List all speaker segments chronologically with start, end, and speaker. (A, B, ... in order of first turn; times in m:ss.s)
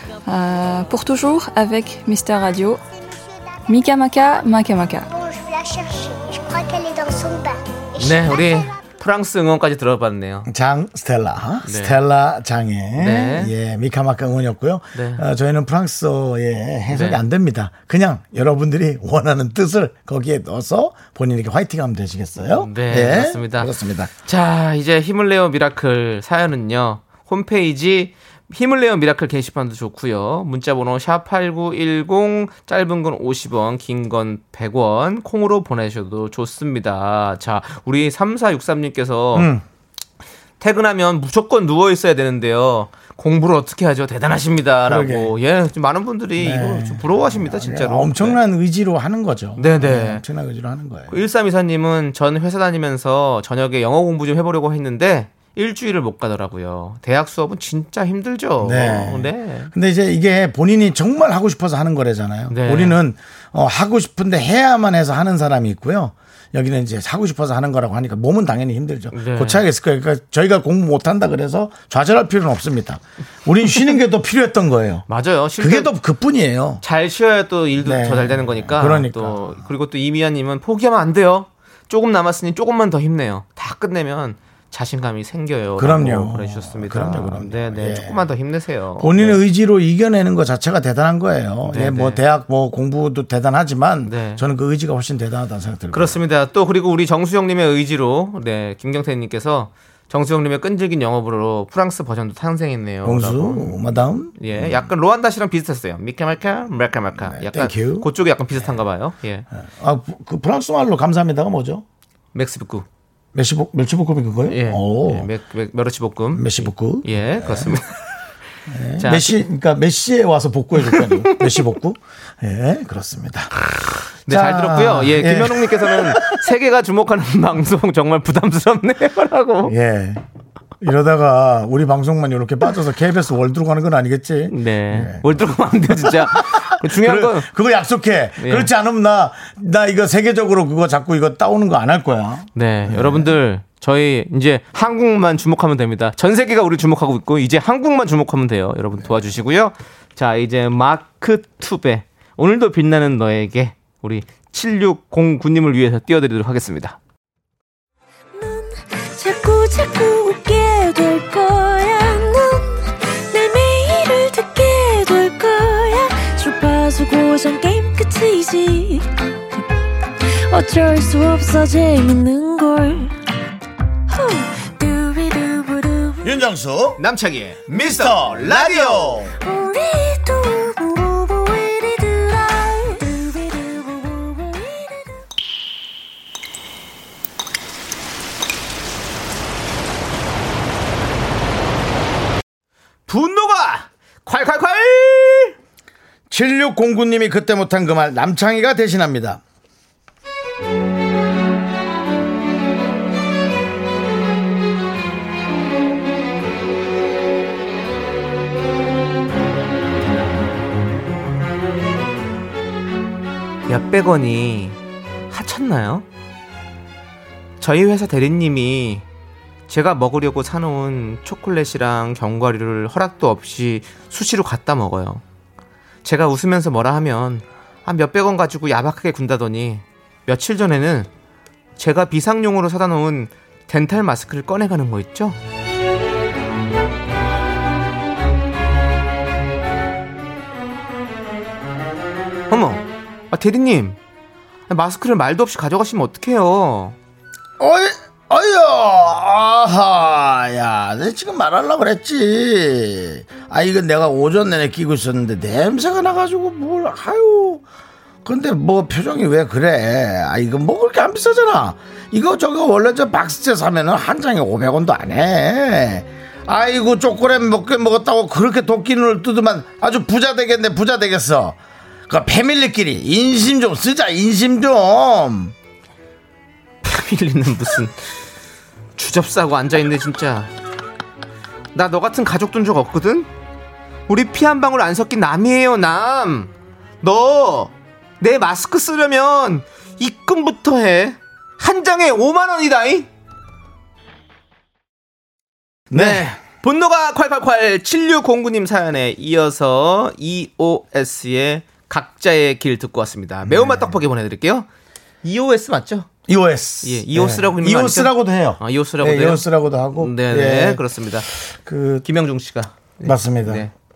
0:00.2-0:02.8 A
0:03.7-0:05.1 A
0:05.1-0:08.8 B
0:08.0-0:10.5 C
0:10.5-0:24.1 D
0:11.6-0:12.0 C
0:13.0-0:13.5 C
0:14.9-0:15.2 C
0:16.9-0:17.2 C
0:22.4-0:23.7 C
0:24.2-0:39.5 C
0:39.3-0:39.6 D
0:40.6-0:48.4 C
0:44.8-0:45.3 D
0:46.4-0:51.2 D
0:49.6-0:50.2 C
0:51.1-0:59.7 C
0:58.6-1:15.0 D
1:02.5-1:03.0 C
1:09.1-1:09.6 C
1:15.1-1:15.9 C
1:15.6-1:16.8 D
1:16.8-1:29.4 C
1:17.8-1:19.6 D
1:25.8-1:28.3 D
1:29.0-1:36.2 D
1:31.6-1:32.2 C
1:34.0-1:34.4 C
1:35.9-1:43.8 C
1:43.0-1:44.9 D
1:44.3-1:49.4 C
1:47.2-1:48.1 D
1:49.6-1:51.8 D
1:52.3-1:52.8 C
1:53.3-1:55.3 D
1:54.5-1:57.9 C
1:56.3-1:57.8 D
1:58.7-2:03.6 D
1:59.0-1:59.4 C
2:00.9-2:01.6 C
2:04.2-2:09.7 C
2:04.3-2:06.5 D
2:09.6-2:10.2 D
2:10.8-2:15.2 D
2:14.5-2:17.5 C
2:15.9-2:23.4 D
2:18.4-2:18.7 C
2:22.5-2:37.0 C
2:38.3-2:49.6 E
2:50.3-2:53.1 E
2:54.1-2:56.4 E
2:56.2-2:57.0 D
2:57.0-2:59.2 C
2:57.7-2:59.4 D
2:59.4-3:05.2 E
3:13.1-3:15.5 C
3:16.3-3:19.4 D
3:33.7-3:34.8 C
3:35.3-3:36.0 C
3:37.6-3:39.0 C
3:39.7-3:45.2 C
3:46.0-3:51.1 C
3:51.8-3:55.4 C
4:02.5-4:04.0 C
4:04.7-4:07.0 C
4:07.6-4:17.6 D
4:18.2-4:35.5 D
4:36.8-4:38.0 C
4:39.0-4:40.5 C
4:41.7-4:43.3 C
4:44.1-4:46.5 C
4:47.0-4:53.1 C
4:55.9-4:56.3 D
4:55.9-5:04.7 C
5:03.4-5:03.9 D
5:05.2-5:06.1 C
5:06.3-5:12.0 D
5:06.8-5:11.3 C
5:12.0-5:13.7 C
5:13.0-5:13.7 D